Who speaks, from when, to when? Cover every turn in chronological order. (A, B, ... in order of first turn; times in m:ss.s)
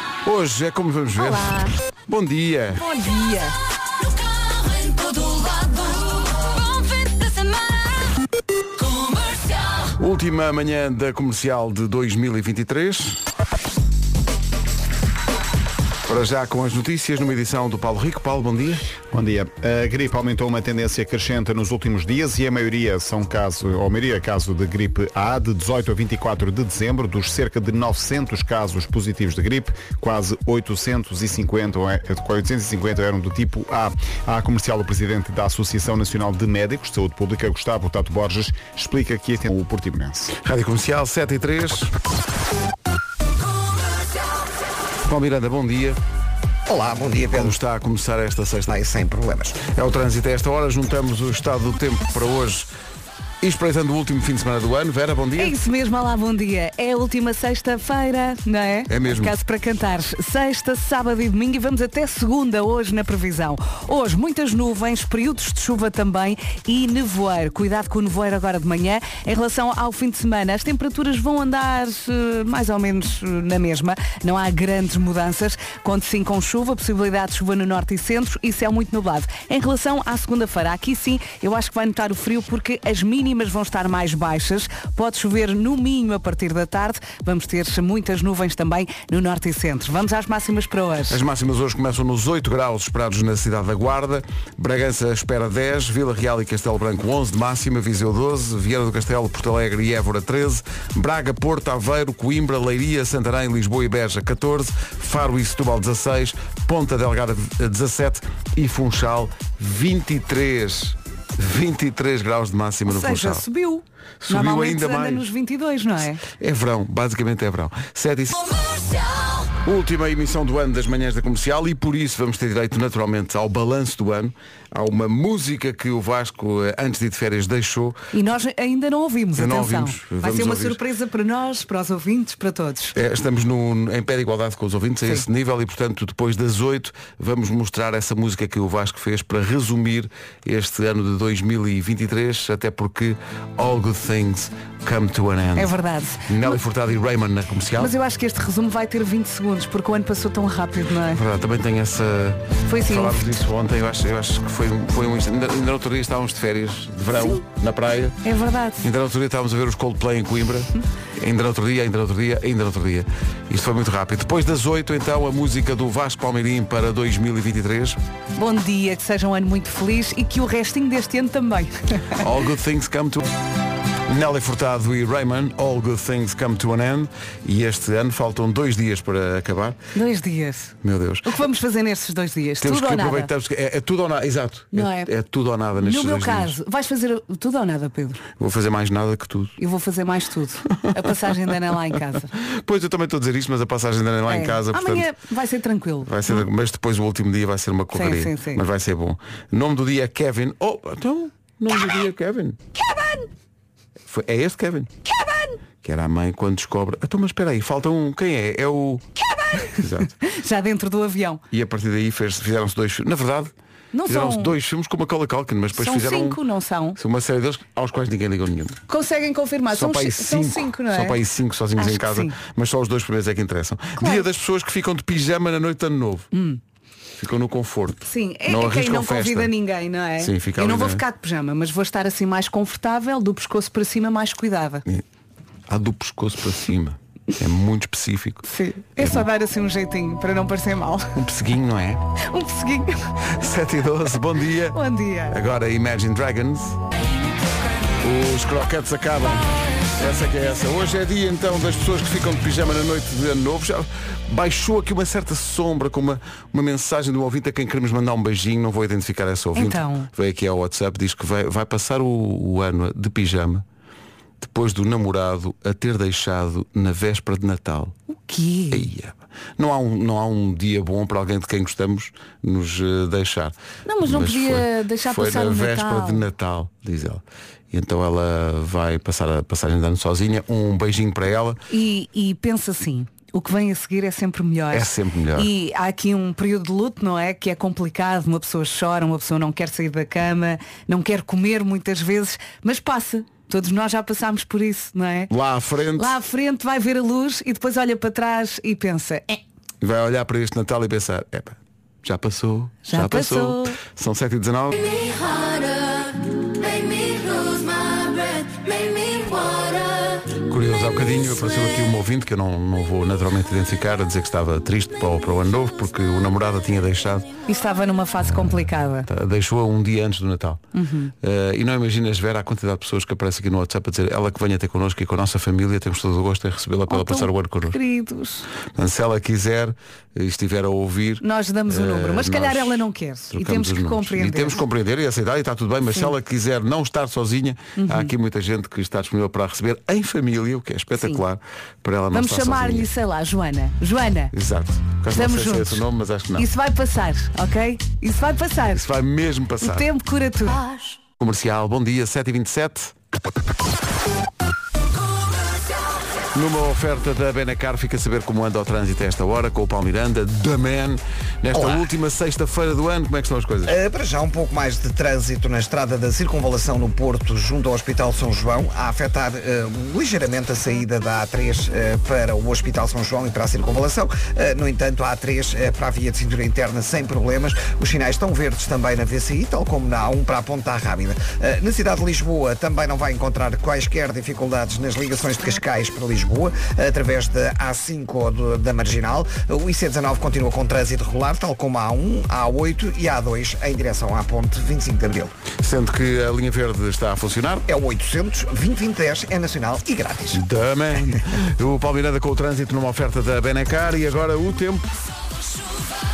0:00.2-0:01.6 A
0:01.2-0:01.7 B
0:02.1-0:02.8 A
0:02.8-0:03.5 B
0:03.7-0:08.2 C
0:08.8-0:09.9 C
0:10.0-0:13.2 A
0:16.1-0:18.8 A
0:19.1-0:40.3 D
0:40.4-0:41.9 A
0:45.1-0:46.0 A
0:46.7-0:47.6 E
0:47.4-0:48.7 A
0:48.7-0:49.7 E
0:49.6-0:52.7 A
0:53.4-0:55.6 A
0:55.4-1:31.2 B
0:58.9-0:59.3 A
1:31.1-1:53.4 A
1:52.8-1:56.2 B
1:54.2-1:55.3 A
1:56.4-1:58.4 A
1:58.5-1:59.5 C
1:59.6-2:08.0 A
2:08.1-2:13.0 B
2:09.3-2:10.8 A
2:13.0-2:25.7 A
2:25.6-2:26.6 B
2:26.3-2:27.9 A
2:27.8-2:31.2 B
2:31.1-2:38.2 A
2:32.7-2:33.2 B
2:37.2-2:37.4 B
2:38.2-2:38.9 B
2:38.8-2:48.0 A
2:48.4-2:52.2 B
2:52.2-2:53.3 A
2:54.1-2:59.8 A
3:00.0-3:00.7 B
3:00.8-3:01.3 A
3:01.2-3:03.3 B
3:02.6-3:06.6 A
3:04.7-3:05.1 B
3:05.8-3:08.2 B
3:08.4-3:09.5 A
3:09.6-3:12.3 B
3:12.4-3:15.1 A
3:14.3-3:16.4 B
3:16.0-3:22.6 A
3:17.9-3:18.6 B
3:22.8-3:23.3 B
3:24.1-3:24.9 A
3:25.1-3:25.6 B
3:25.8-3:29.0 A
3:29.2-3:31.4 B
3:29.6-3:30.1 A
3:31.5-3:33.5 A
3:33.9-3:34.6 B
3:34.1-3:36.4 A
3:35.7-3:37.0 B
3:37.0-3:38.8 A
3:38.9-3:41.2 B
3:39.7-3:46.3 A
3:41.8-3:42.4 B
3:44.0-3:44.3 B
3:46.3-3:46.6 B
3:47.2-3:49.5 A
3:48.1-3:54.8 B
3:50.2-3:51.0 A
3:55.7-3:58.4 A
3:58.5-4:01.1 B
3:59.0-3:59.3 A
4:01.2-4:02.0 A
4:02.3-4:03.0 B
4:03.4-4:04.8 A
4:04.7-4:05.4 B
4:05.3-4:06.8 A
4:08.0-4:23.6 A
4:19.6-4:20.1 B
4:24.4-4:28.0 A
4:28.1-4:28.9 B
4:28.7-4:41.6 A
4:33.9-4:36.3 B
4:41.7-4:55.3 B
4:44.7-4:45.5 A
4:55.3-4:56.2 A
4:56.0-4:59.4 B
4:59.8-5:04.8 A
5:02.9-5:03.8 B
5:04.9-5:10.2 C
5:10.4-5:17.3 A
5:17.5-5:19.1 B
5:18.4-5:20.6 A
5:20.8-5:21.1 B
5:21.2-5:27.8 A
5:26.9-5:28.5 B
5:28.8-5:42.9 A
5:31.2-5:34.6 B
5:37.8-5:38.1 B
5:41.0-5:41.2 B
5:42.1-5:44.3 B
5:44.3-5:46.5 A
5:45.1-5:45.8 B
5:46.4-5:48.8 B
5:48.7-5:49.9 A
5:49.6-5:50.8 B
5:51.2-5:52.9 A
5:56.3-6:03.8 A
6:01.5-6:01.9 E
6:03.7-6:35.3 E
6:35.6-6:37.6 A
6:37.7-6:40.4 E
6:40.3-6:44.9 A